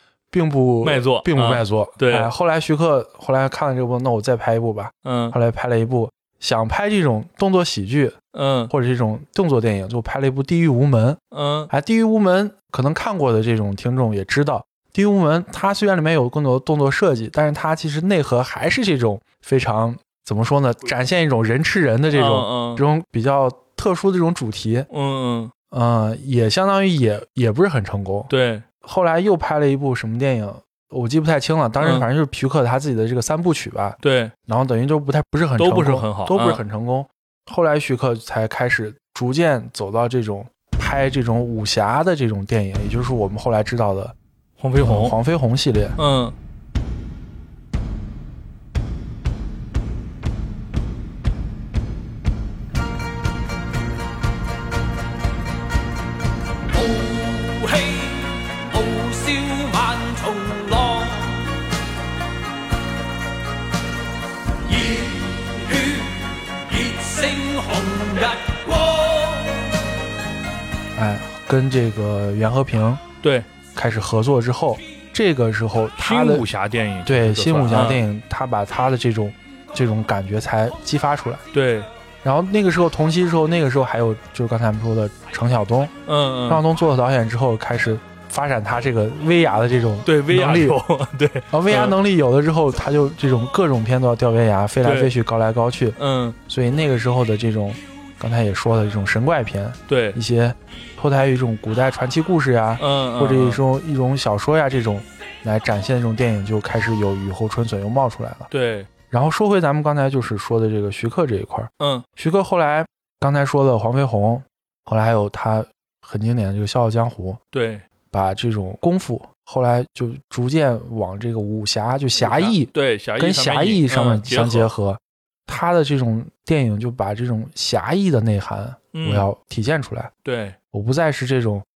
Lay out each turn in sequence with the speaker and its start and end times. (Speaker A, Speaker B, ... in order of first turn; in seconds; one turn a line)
Speaker A: 0.3-8.2
Speaker B: 0.8-2.3
Speaker B: 5.0-5.3
Speaker B: 8.3-8.7
Speaker A: 8.7-24.9
Speaker B: 11.3-11.7
Speaker B: 22.1-22.8
Speaker B: 24.9-25.5
Speaker A: 25.7-28.3
Speaker B: 28.3-28.6
Speaker A: 28.8-44.1
Speaker B: 31.8-32.1
Speaker B: 34.0-34.3
Speaker B: 35.6-36.6
Speaker B: 44.6-45.2
Speaker A: 44.8-46.0
Speaker B: 46.0-46.4
Speaker C: 56.7-61.5
Speaker C: 64.7-69.7
Speaker A: 71.0-73.0
Speaker B: 73.2-73.5
Speaker A: 73.8-76.5
Speaker B: 76.0-78.0
Speaker A: 77.0-81.4
Speaker B: 81.5-81.9
Speaker A: 82.2-85.9
Speaker B: 86.1-86.6
Speaker A: 86.5-90.8
Speaker B: 90.0-92.0
Speaker A: 91.5-96.0
Speaker B: 94.8-95.1
Speaker B: 96.0-96.4
Speaker A: 96.5-108.5
Speaker B: 99.9-100.2
Speaker B: 102.8-103.6
Speaker B: 108.5-108.9
Speaker A: 109.1-117.4
Speaker B: 111.8-112.0
Speaker B: 117.5-117.8
Speaker A: 118.1-130.1
Speaker B: 122.2-124.7
Speaker B: 128.9-129.3
Speaker B: 130.2-130.6
Speaker A: 130.7-131.7